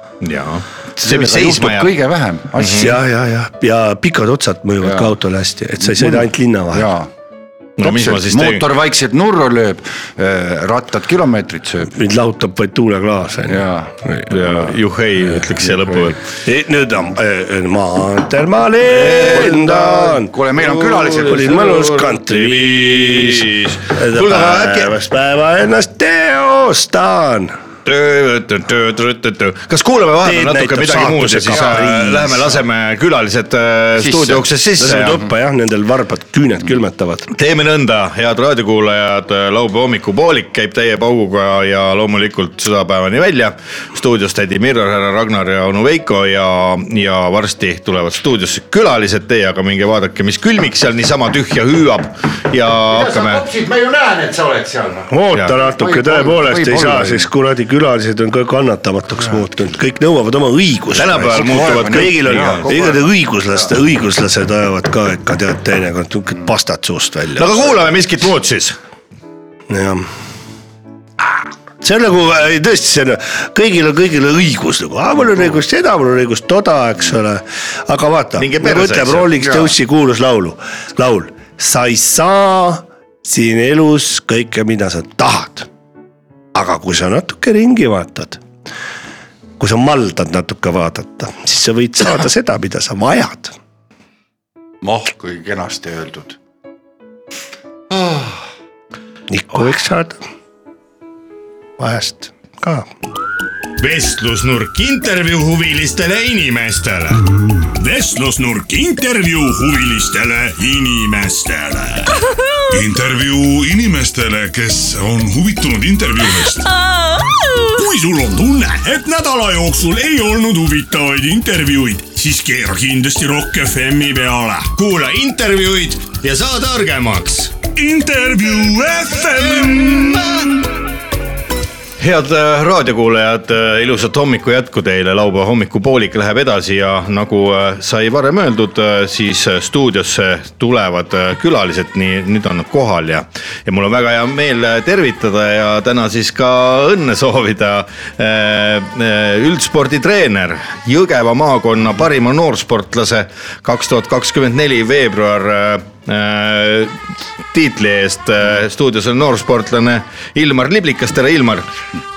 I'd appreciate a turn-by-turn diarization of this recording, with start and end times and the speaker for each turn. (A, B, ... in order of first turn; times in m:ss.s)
0:00.2-0:01.9 A
0:01.0-0:03.0 B
0:02.6-0:02.9 A
0:02.8-0:06.9 C
0:04.8-0:05.1 B
0:05.8-0:07.1 B
0:07.8-0:08.6 A
0:07.8-0:11.9 B
0:11.8-0:14.3 C
0:13.5-0:14.7 B
0:14.3-0:16.2 A
0:15.7-0:16.1 B
0:16.4-0:20.3 C
0:18.8-0:19.9 A
0:19.2-0:21.6 B
0:20.6-0:24.9 A
0:21.2-0:27.5 C
0:27.8-0:35.2 A
0:30.2-0:32.5 C
0:34.0-0:34.5 B
0:34.8-0:37.3 C
0:37.3-0:53.4 A
0:52.9-0:57.3 B
0:55.1-1:07.7 C
1:00.9-1:02.7 A
1:01.2-1:03.0 B
1:07.4-1:08.8 A
1:09.7-1:10.1 C
1:11.8-1:25.7 C
1:18.4-1:19.3 A
1:19.4-1:19.7 B
1:26.5-1:28.4 C
1:29.6-1:33.5 C
1:34.8-1:36.4 B
1:37.9-1:38.4 B
1:39.3-1:40.2 C
1:41.8-1:42.9 C
1:43.8-1:47.2 A
1:47.7-1:52.3 D
1:52.7-1:56.7 E
1:56.8-2:04.9 D
2:04.8-2:07.6 A
2:07.7-2:10.6 D
2:12.0-2:37.0 A
2:37.5-2:41.7 A